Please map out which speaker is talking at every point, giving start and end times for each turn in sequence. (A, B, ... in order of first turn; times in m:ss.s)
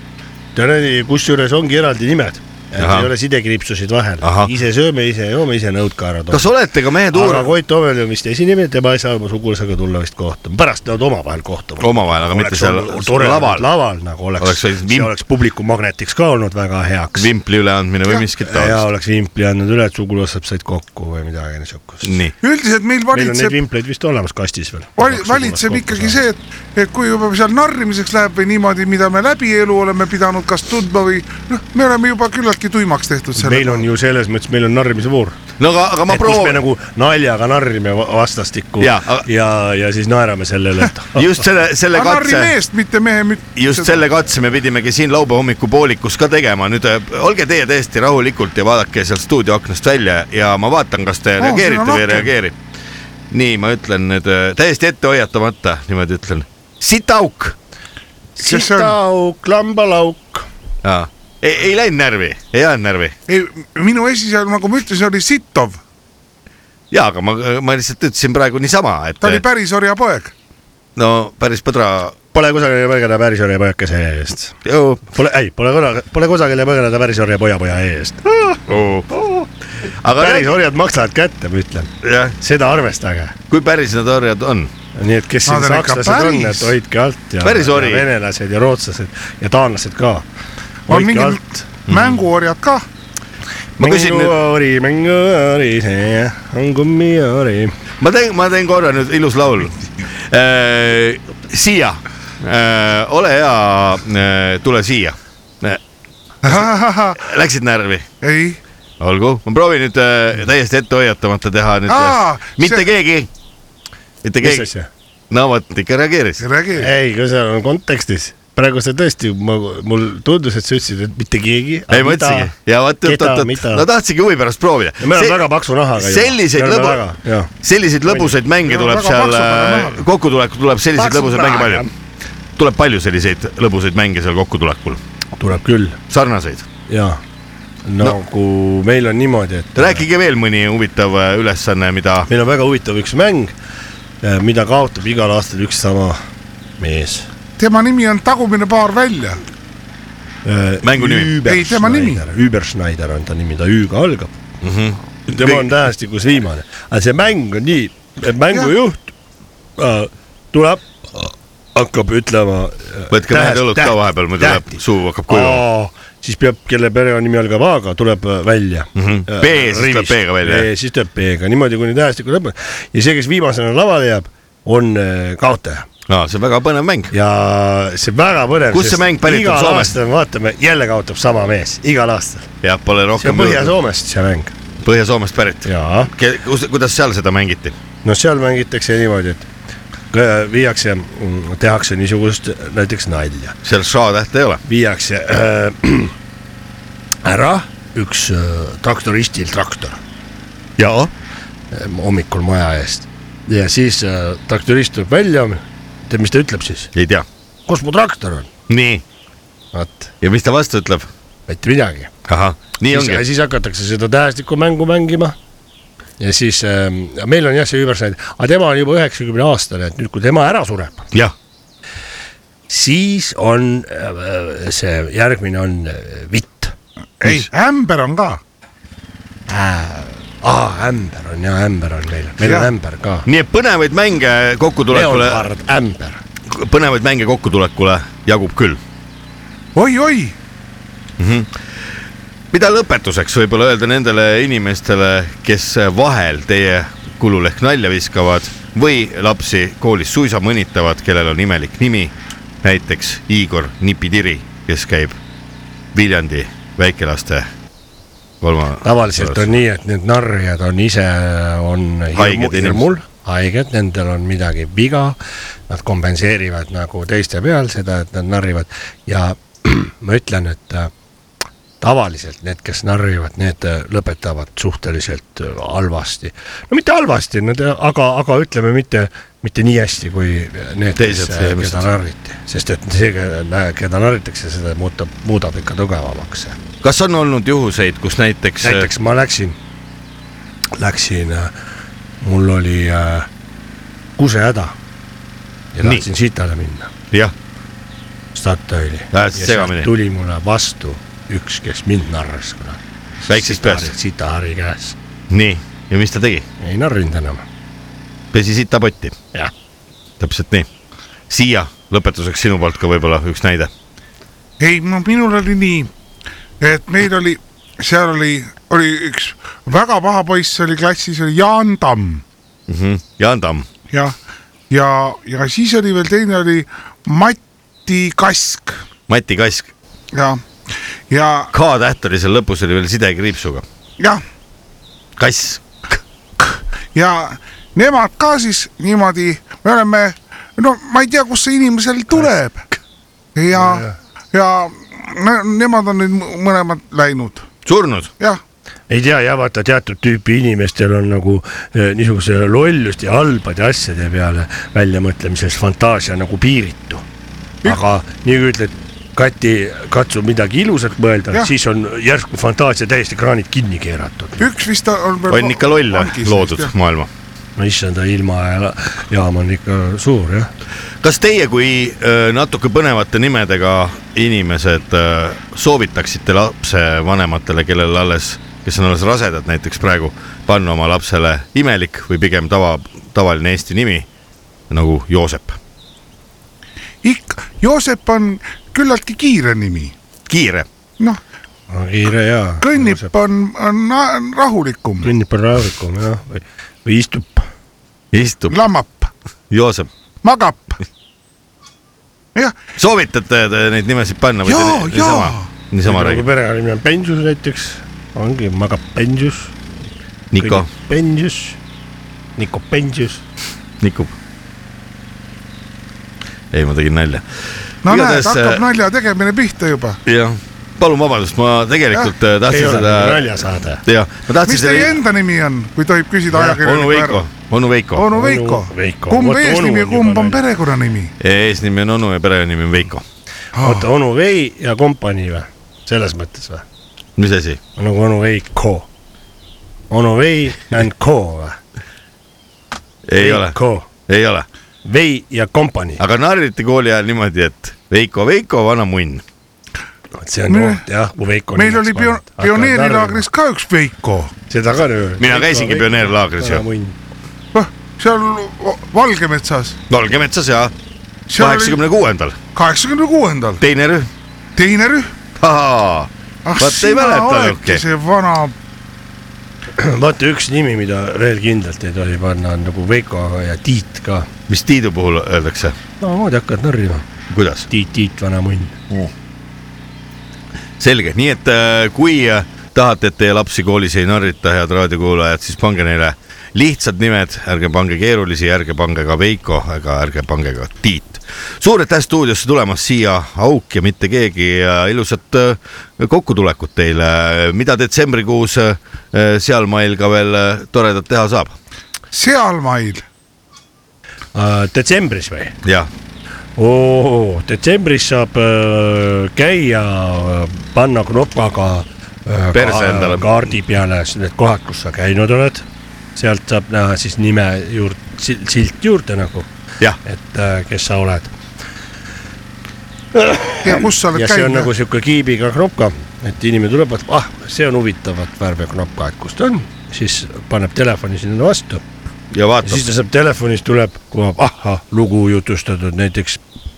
0:00.5-0:06.5 A
0:02.8-0:03.1 B
0:04.2-0:04.5 B
0:06.3-0:07.5 B
0:07.1-0:17.3 A
0:11.8-0:13.7 B
0:14.4-0:15.1 B
0:17.1-0:18.8 B
0:18.4-0:22.1 A
0:22.0-0:22.3 B
0:22.4-0:23.6 C
0:23.1-0:26.2 A
0:25.0-0:33.8 C
0:33.4-0:35.4 A
0:35.6-0:36.6 B
0:36.1-0:41.3 A
0:38.8-0:39.3 B
0:41.1-0:42.5 B
0:41.9-0:44.0 C
0:43.6-0:52.6 B
0:51.4-0:52.3 C
0:53.3-0:57.6 B
0:58.4-1:00.4 A
0:58.4-0:58.9 C
1:00.8-1:03.1 B
1:03.3-1:05.8 C
1:06.9-1:09.4 B
1:09.2-1:10.3 C
1:11.0-1:12.2 B
1:12.3-1:14.6 A
1:14.6-1:15.0 B
1:15.1-1:18.6 A
1:18.7-1:20.5 B
1:20.1-1:23.3 A
1:22.0-1:22.4 B
1:23.5-1:24.7 B
1:25.0-1:30.2 A
1:25.4-1:26.7 C
1:27.4-1:28.1 B
1:30.9-1:31.6 A
1:30.9-1:32.8 C
1:31.9-1:32.2 B
1:33.8-1:34.4 B
1:33.8-1:37.7 A
1:38.0-1:45.8 B
1:46.4-1:47.2 C
1:46.4-1:48.0 B
1:48.2-1:48.6 C
1:49.0-1:53.3 B
1:51.9-1:52.9 C
1:54.2-1:54.7 B
1:54.4-1:54.9 A
1:55.3-1:56.4 B
1:56.4-1:56.9 C
1:56.8-2:03.8 A
2:01.9-2:07.0 B
2:05.0-2:07.5 A
2:07.6-2:11.9 B
2:08.6-2:10.0 C
2:11.0-2:11.9 A
2:12.6-2:15.0 B
2:15.4-2:16.0 A
2:16.1-2:16.6 B
2:16.9-2:17.2 A
2:17.8-2:20.0 A
2:19.7-2:22.3 B
2:22.3-2:23.5 A
2:24.2-2:26.2 A
2:26.8-2:27.3 A
2:27.6-2:29.4 C
2:30.4-2:34.4 A
2:30.8-2:31.3 B
2:31.4-2:32.2 C
2:34.6-2:35.7 B
2:35.3-2:39.1 A
2:39.8-2:55.9 A
2:43.1-2:45.6 B
2:48.9-2:50.7 B
2:56.1-2:57.1 B
2:57.1-3:02.5 A
2:58.7-2:59.9 B
3:02.6-3:03.7 B
3:03.2-3:04.5 A
3:04.8-3:07.7 B
3:05.6-3:06.1 A
3:08.0-3:09.5 A
3:10.1-3:13.6 A
3:13.6-3:14.6 B
3:14.6-3:16.1 A
3:17.2-3:20.0 A
3:20.8-3:21.1 B
3:21.7-3:26.9 A
3:26.9-3:27.2 B
3:27.7-3:28.5 A
3:28.7-3:29.0 B
3:29.7-3:30.1 A
3:30.2-3:31.1 B
3:31.5-3:32.1 A
3:32.2-3:33.2 B
3:32.9-3:35.4 A
3:36.2-3:41.1 A
3:42.7-3:46.7 A
3:47.2-3:48.4 C
3:47.2-3:47.5 B
3:49.5-3:53.2 A
3:52.4-3:52.7 C
3:53.2-3:55.5 B
3:54.9-3:56.2 A
3:56.4-3:58.8 B
3:59.7-4:00.4 C
4:01.2-4:01.5 B
4:02.5-4:15.2 B
4:15.9-4:17.5 B
4:18.4-4:19.5 B
4:18.8-4:25.2 A
4:22.1-4:22.9 B
4:25.7-4:30.9 A
4:31.8-4:46.6 A
4:41.0-4:41.9 B
4:46.8-4:48.9 B
4:48.6-4:49.6 A
4:50.8-4:51.5 A
4:52.2-4:53.3 A
4:54.2-4:54.8 A
4:55.7-4:56.9 A
4:58.3-5:05.0 A
4:59.1-4:59.9 B
5:03.3-5:03.9 B
5:05.3-5:06.4 B
5:06.6-5:07.4 A
5:08.3-5:09.2 B
5:10.2-5:10.7 B
5:11.3-5:13.7 B
5:14.6-5:15.9 C
5:16.6-5:22.2 C
5:22.7-5:23.7 B
5:23.9-5:24.2 C
5:24.7-5:28.8 C
5:29.1-5:29.7 B
5:30.1-5:30.4 C
5:31.1-5:31.5 C
5:31.5-5:33.6 B
5:35.2-5:36.0 B
5:36.9-5:42.6 C
5:43.3-5:47.5 C
5:43.5-5:43.9 A
5:47.6-5:48.1 B
5:48.9-5:57.0 A
5:57.6-6:04.5 A
6:04.4-6:06.7 C
6:05.3-6:07.1 B
6:07.6-6:10.5 A
6:11.0-6:24.1 B
6:24.7-6:25.6 B
6:27.0-6:29.9 C
6:30.3-6:30.7 B
6:31.7-6:33.1 A
6:32.6-6:35.1 C
6:35.0-6:37.5 A
6:38.1-6:38.5 B
6:38.5-6:39.1 C
6:39.5-6:39.9 B
6:40.2-6:40.8 C
6:42.8-6:46.2 B
6:44.4-6:45.5 C
6:45.8-6:49.5 A
6:50.3-6:50.7 B
6:50.4-6:51.6 A
6:52.4-6:53.2 A
6:53.8-6:54.1 B
6:56.5-6:57.2 B
6:57.8-6:58.6 B
6:57.8-7:00.0 C
7:00.0-7:05.0 B
7:02.4-7:03.8 A
7:04.4-7:07.2 C
7:06.4-7:08.1 B
7:07.9-7:11.1 C
7:08.1-7:10.4 A
7:11.2-7:13.0 B
7:13.5-7:13.9 C
7:13.6-7:16.6 A
7:17.2-7:17.6 B
7:17.8-7:18.9 A
7:19.9-7:21.6 A
7:23.0-7:24.5 B
7:23.2-7:23.9 A
7:24.8-7:26.0 A
7:26.0-7:29.2 B
7:30.2-7:33.2 A
7:30.5-7:30.8 C
7:31.5-7:34.3 C
7:34.5-7:37.0 A
7:35.2-7:36.6 B
7:37.5-7:39.8 C
7:39.9-7:40.7 B
7:41.3-7:41.8 C
7:41.3-7:42.4 B
7:42.5-7:43.6 C
7:43.6-7:44.1 B
7:44.6-7:45.1 C
7:45.4-7:47.8 B
7:46.4-7:48.5 C
7:49.8-7:54.3 A
7:54.5-7:55.8 B
7:56.0-7:57.0 A
7:57.3-7:57.7 B
7:57.7-7:58.8 A
8:00.8-8:21.6 B
8:22.1-8:23.0 C
8:24.3-8:25.5 A
8:25.6-8:25.9 B
8:26.6-8:39.5 A
8:32.5-8:33.5 B
8:40.0-8:41.3 A
8:43.1-8:51.8 A
8:43.6-8:44.7 C
8:52.3-8:52.9 B
8:52.6-8:56.4 A